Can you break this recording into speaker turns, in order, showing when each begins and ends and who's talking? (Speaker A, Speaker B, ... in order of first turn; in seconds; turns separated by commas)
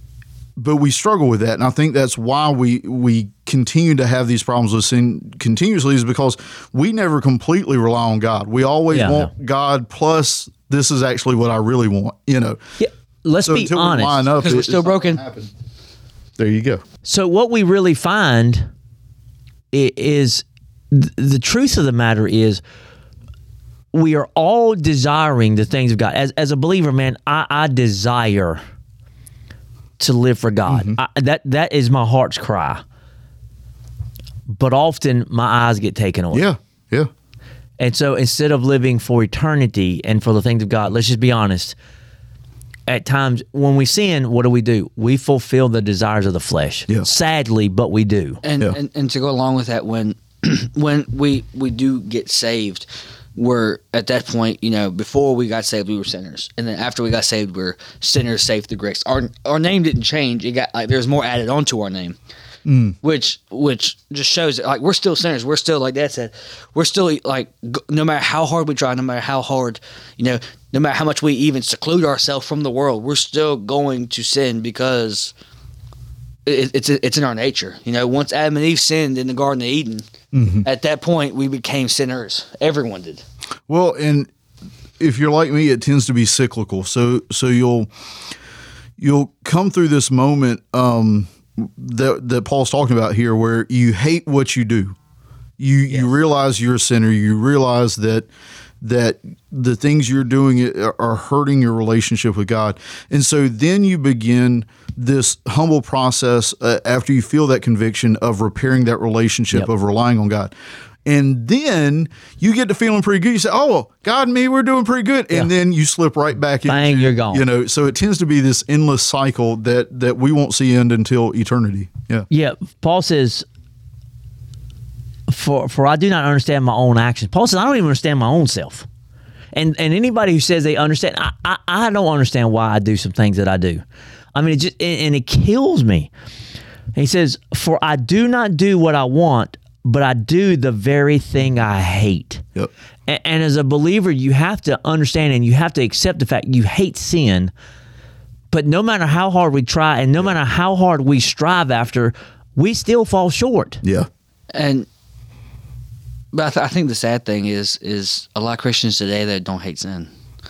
Speaker A: 0.6-12.6, Speaker B: 8.9-9.3, Speaker B: 12.8-14.3, Speaker A: 13.4-15.5, Speaker C: 14.4-15.2, Speaker A: 16.4-16.8, Speaker B: 17.0-18.7, Speaker B: 19.7-22.6, Speaker B: 23.9-28.6, Speaker B: 30.0-32.8, Speaker A: 30.7-31.0, Speaker B: 34.5-36.5, Speaker A: 36.3-37.1, Speaker B: 37.8-41.8, Speaker B: 42.9-48.4, Speaker C: 48.4-62.1, Speaker A: 62.6-63.0, Speaker C: 63.0-75.3, Speaker C: 76.5-80.1, Speaker A: 80.3-80.7, Speaker C: 80.6-83.2, Speaker A: 83.7-84.3, Speaker A: 85.0-87.9, Speaker A: 89.0-95.0, Speaker A: 95.6-98.3, Speaker A: 98.8-110.5, Speaker A: 111.0-122.3, Speaker B: 116.6-117.4, Speaker B: 122.3-123.4, Speaker B: 125.3-128.8, Speaker B: 129.5-133.8, Speaker B: 134.3-136.1, Speaker B: 136.9-142.4, Speaker B: 143.1-147.5, Speaker B: 148.5-153.8, Speaker A: 153.8-154.1, Speaker C: 154.5-154.9, Speaker C: 156.3-160.1